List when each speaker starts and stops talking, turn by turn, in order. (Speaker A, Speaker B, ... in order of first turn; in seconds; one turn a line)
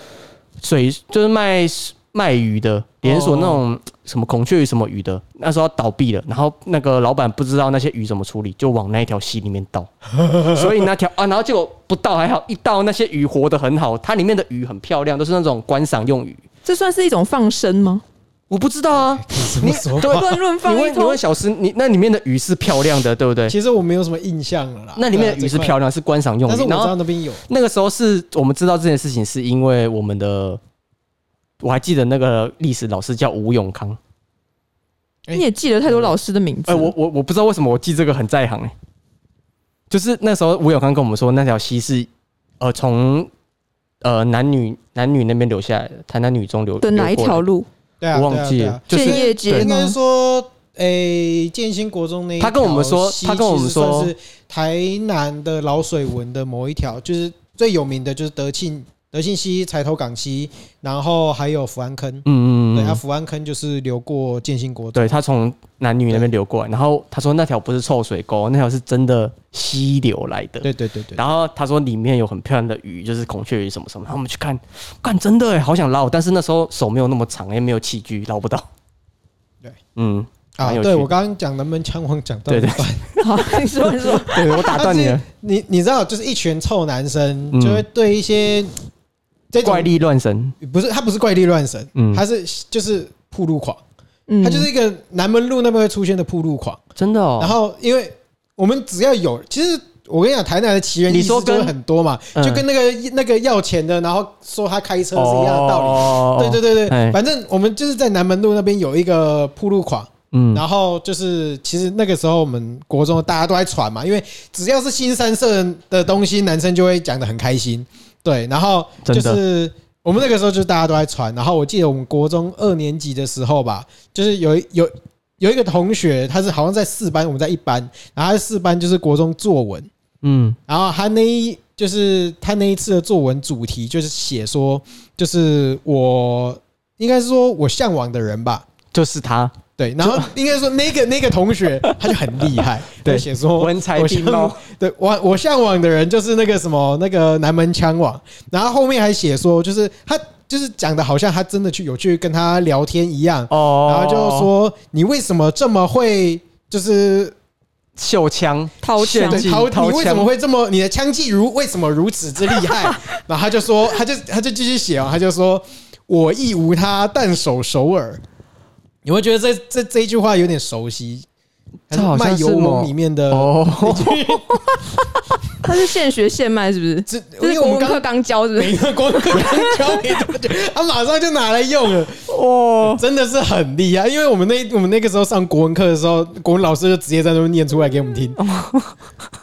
Speaker A: 0.6-16.4
Speaker B: 3.0-3.6
Speaker B: 10.2-10.7
Speaker C: 16.6-18.0
Speaker A: 18.5-23.6
Speaker B: 19.1-20.2
Speaker C: 20.1-21.2
Speaker B: 23.5-25.8
Speaker A: 24.9-26.9
Speaker B: 26.4-27.4
Speaker A: 27.5-30.6
Speaker A: 31.6-34.0
Speaker C: 35.3-36.9
Speaker A: 36.7-38.7
Speaker A: 39.9-42.1
Speaker A: 42.6-43.3
Speaker A: 44.0-47.4
Speaker C: 46.8-47.7
Speaker B: 48.0-65.2
Speaker A: 48.1-49.7
Speaker C: 48.9-50.0
Speaker A: 52.4-54.1
Speaker A: 62.2-63.0
Speaker A: 64.9-78.7
Speaker B: 70.6-71.2
Speaker A: 80.0-81.1
Speaker B: 80.6-83.1
Speaker A: 82.5-85.2
Speaker C: 83.2-84.8
Speaker B: 84.7-88.7
Speaker A: 87.5-87.8
Speaker B: 89.5-89.9
Speaker A: 89.6-90.5
Speaker B: 90.6-93.8
Speaker A: 92.0-92.2
Speaker C: 94.3-94.7
Speaker B: 94.4-96.8
Speaker A: 97.0-97.5
Speaker B: 97.4-129.9
Speaker A: 101.1-101.7
Speaker A: 102.3-102.6
Speaker A: 105.1-107.2
Speaker A: 110.3-110.6
Speaker A: 119.0-119.4
Speaker A: 130.2-130.6
Speaker B: 130.7-138.6
Speaker A: 138.9-140.3
Speaker B: 139.8-157.3
Speaker A: 141.8-142.2
Speaker A: 143.0-144.6
Speaker A: 153.5-154.5
Speaker A: 158.0-160.3
Speaker C: 158.8-159.5
Speaker B: 159.1-168.2
Speaker C: 162.6-163.0
Speaker B: 169.0-171.2
Speaker B: 171.9-174.8
Speaker A: 171.9-175.1
Speaker C: 175.6-180.0
Speaker B: 177.1-182.3
Speaker A: 182.3-183.0
Speaker B: 182.8-188.4
Speaker A: 188.4-189.0